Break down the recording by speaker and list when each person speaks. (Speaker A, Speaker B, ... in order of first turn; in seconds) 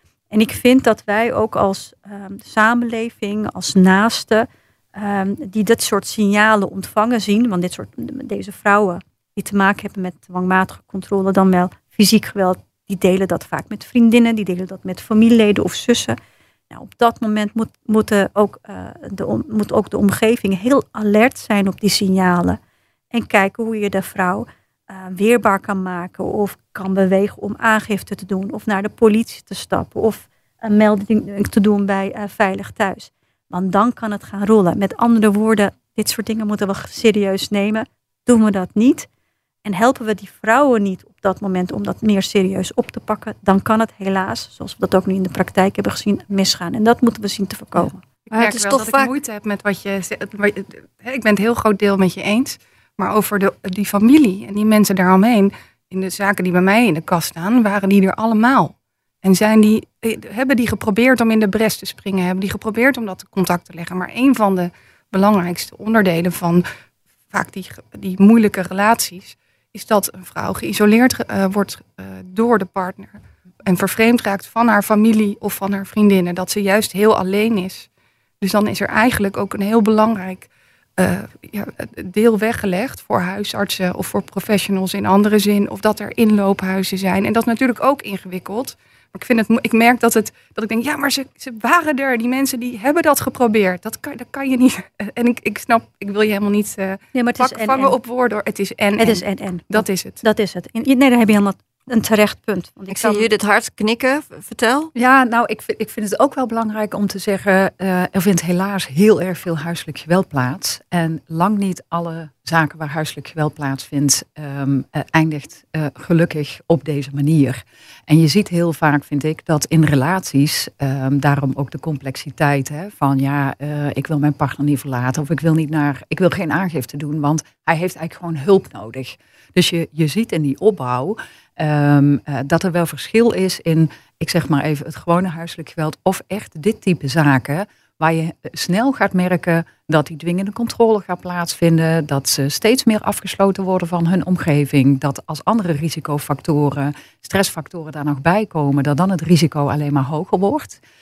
Speaker A: 0.3-16.2, 16.7-22.6, 23.1-39.1, 39.6-48.0, 97.1-98.0, 99.0-103.3
Speaker B: 48.3-66.6, 67.3-77.9, 78.4-100.2
Speaker C: 48.3-49.1, 102.9-104.9
Speaker D: 104.9-150.8